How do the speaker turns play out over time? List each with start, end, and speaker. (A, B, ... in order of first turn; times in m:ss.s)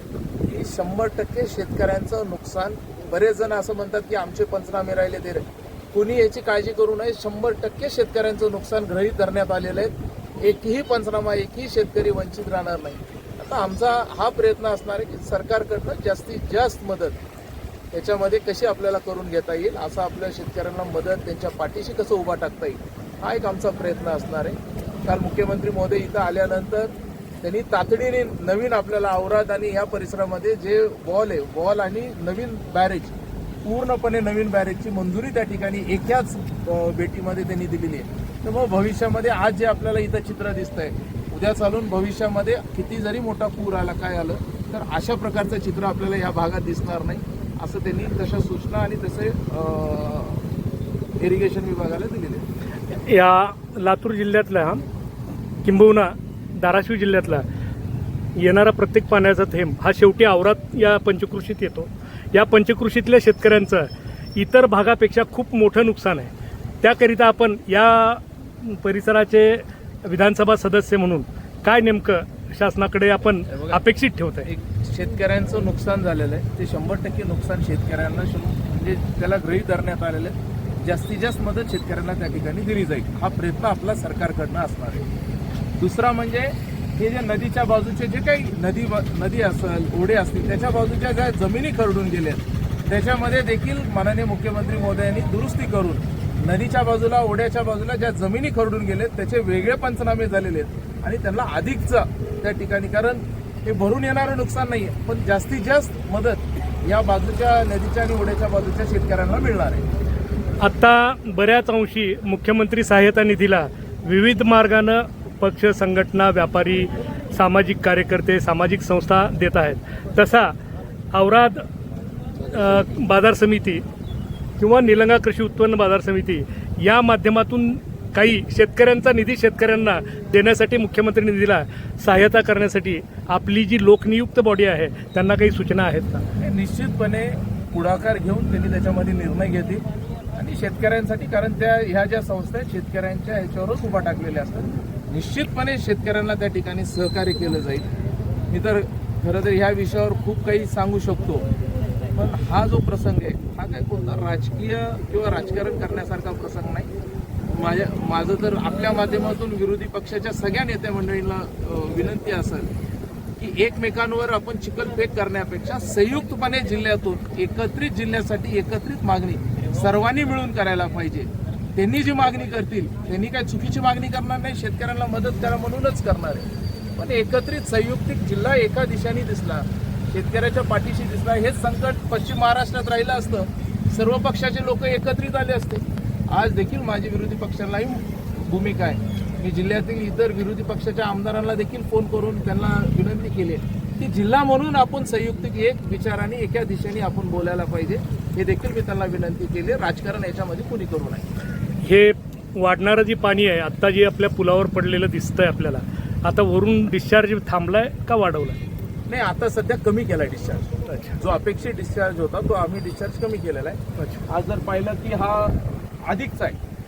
0:00.4-0:17.2 A
0:17.9-0:50.4 A
0:51.2-0:52.4 A
0:52.9-0:54.8 B
0:55.6-0:57.4 B
0:58.4-1:06.3 B
1:06.8-1:14.5 B
1:13.5-1:13.8 A
1:14.4-1:25.1 A
1:25.8-1:49.8 A
1:50.6-2:00.5 B
2:01.1-2:01.6 B
2:02.4-2:03.8 B
2:04.6-2:16.2 B
2:16.4-2:19.8 A
2:20.3-2:27.9 A
2:28.5-2:31.4 A
2:32.1-2:36.9 A
2:37.5-2:42.7 A
2:43.4-3:21.2 A
3:21.8-3:28.6 B
3:29.1-3:30.7 A
3:30.9-3:31.2 B
3:31.2-3:36.6 A
3:34.0-3:34.2 B